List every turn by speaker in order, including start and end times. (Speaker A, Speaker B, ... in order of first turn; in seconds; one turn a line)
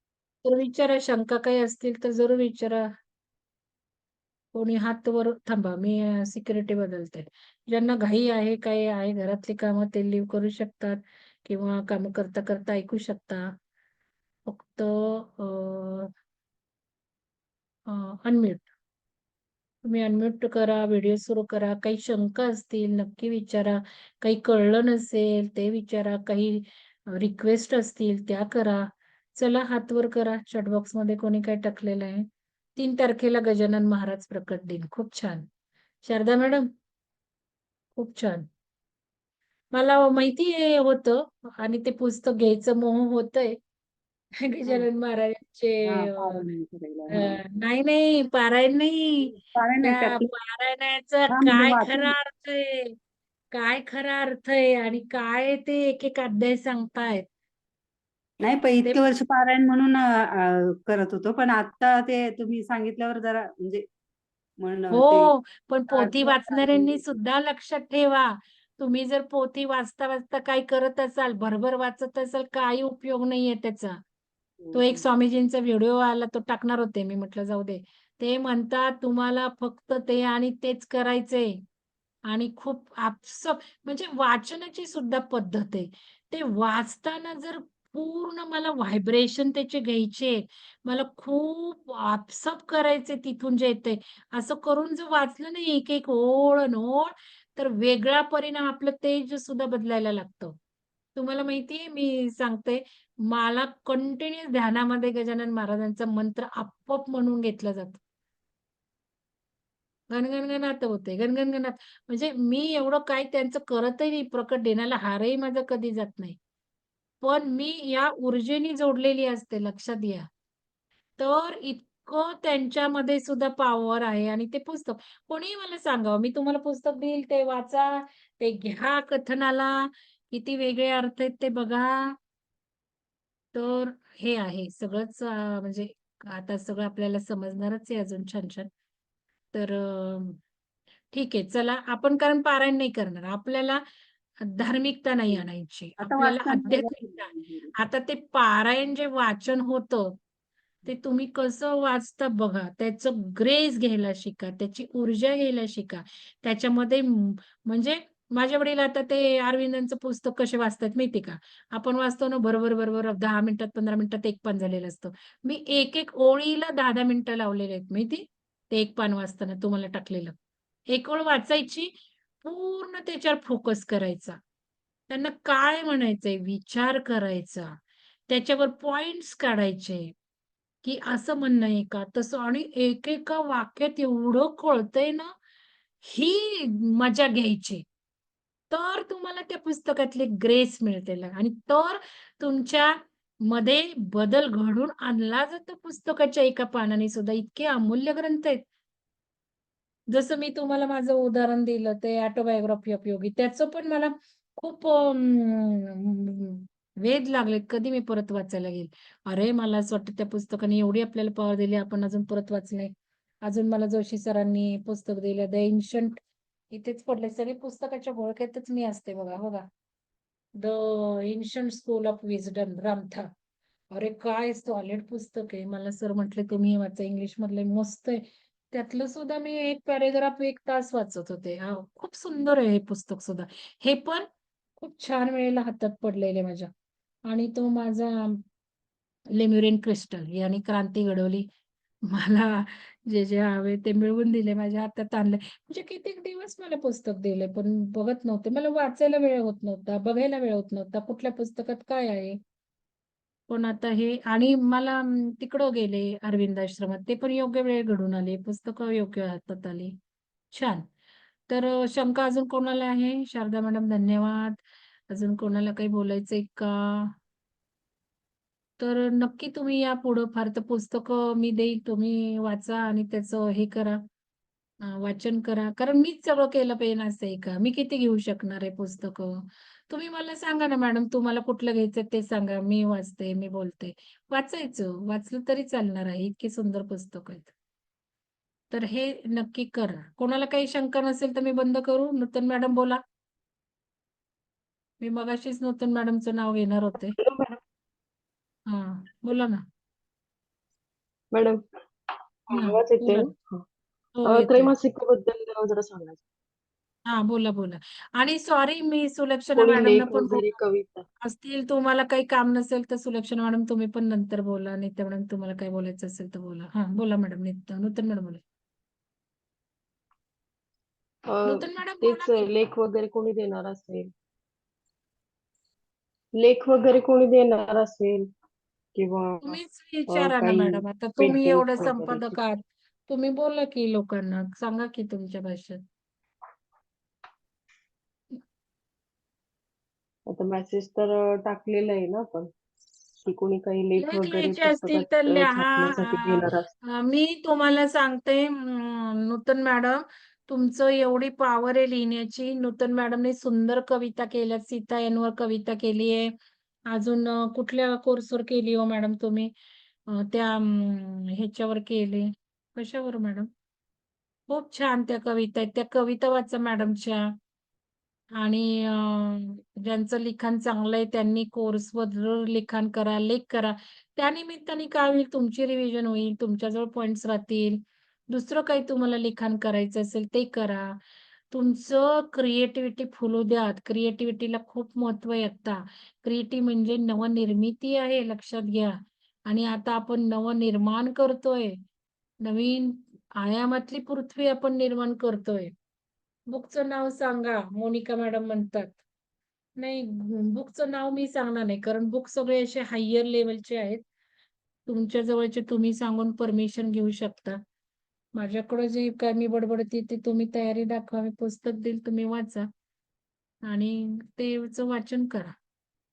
Speaker A: 0.4-2.9
Speaker A: 4.5-13.5
Speaker A: 14.5-16.1
Speaker A: 17.9-18.6
Speaker A: 19.8-35.5
Speaker A: 36.0-36.7
Speaker A: 38.0-38.5
Speaker A: 39.7-43.6
Speaker A: 44.4-46.5
Speaker B: 45.9-47.4
Speaker A: 47.1-53.0
Speaker B: 49.2-50.3
Speaker B: 51.3-52.1
Speaker A: 53.5-57.2
Speaker B: 58.4-63.9
Speaker B: 64.6-65.3
Speaker A: 64.9-74.0
Speaker B: 65.9-67.0
Speaker B: 74.6-75.0
Speaker A: 74.7-81.6
Speaker A: 82.3-100.6
Speaker A: 101.2-108.0
Speaker A: 110.1-116.4
Speaker A: 117.2-120.3
Speaker A: 121.2-132.1
Speaker A: 133.5-138.7
Speaker A: 139.5-140.4
Speaker A: 141.1-143.8
Speaker A: 144.4-150.2
Speaker B: 146.0-147.7
Speaker A: 150.8-170.3
Speaker A: 170.9-171.9
Speaker A: 172.4-174.4
Speaker A: 175.1-177.7
Speaker A: 178.3-180.1
Speaker A: 180.8-185.3
Speaker A: 186.0-187.8
Speaker A: 188.7-192.9
Speaker A: 193.5-198.6
Speaker A: 200.1-212.9
Speaker A: 213.4-216.2
Speaker A: 216.7-219.7
Speaker A: 220.6-223.3
Speaker A: 223.9-234.3
Speaker A: 234.8-236.7
Speaker A: 237.3-238.4
Speaker A: 239.3-241.5
Speaker A: 242.1-252.4
Speaker A: 253.5-259.9
Speaker A: 260.5-260.8
Speaker A: 261.5-264.6
Speaker A: 265.1-267.1
Speaker A: 268.8-274.0
Speaker A: 274.8-287.5
Speaker A: 288.7-293.0
Speaker A: 295.0-297.2
Speaker C: 297.2-297.6
Speaker A: 298.7-299.6
Speaker C: 301.3-301.6
Speaker C: 302.5-303.6
Speaker A: 302.5-303.3
Speaker A: 304.2-304.7
Speaker C: 304.3-306.2
Speaker A: 307.1-310.6
Speaker C: 309.6-311.1
Speaker A: 311.2-318.4
Speaker C: 321.3-324.1
Speaker A: 321.5-322.5
Speaker C: 326.4-328.3
Speaker C: 329.0-332.4
Speaker A: 329.4-335.8
Speaker C: 340.3-342.5
Speaker C: 343.2-346.7
Speaker A: 344.0-356.3
Speaker A: 356.9-359.5
Speaker A: 360.1-363.5
Speaker A: 364.5-367.3
Speaker A: 368.4-381.0
Speaker A: 381.5-391.8
Speaker A: 392.4-395.7
Speaker A: 396.5-399.0
Speaker A: 399.8-404.0
Speaker A: 404.9-407.6
Speaker A: 408.4-412.7
Speaker A: 413.7-415.5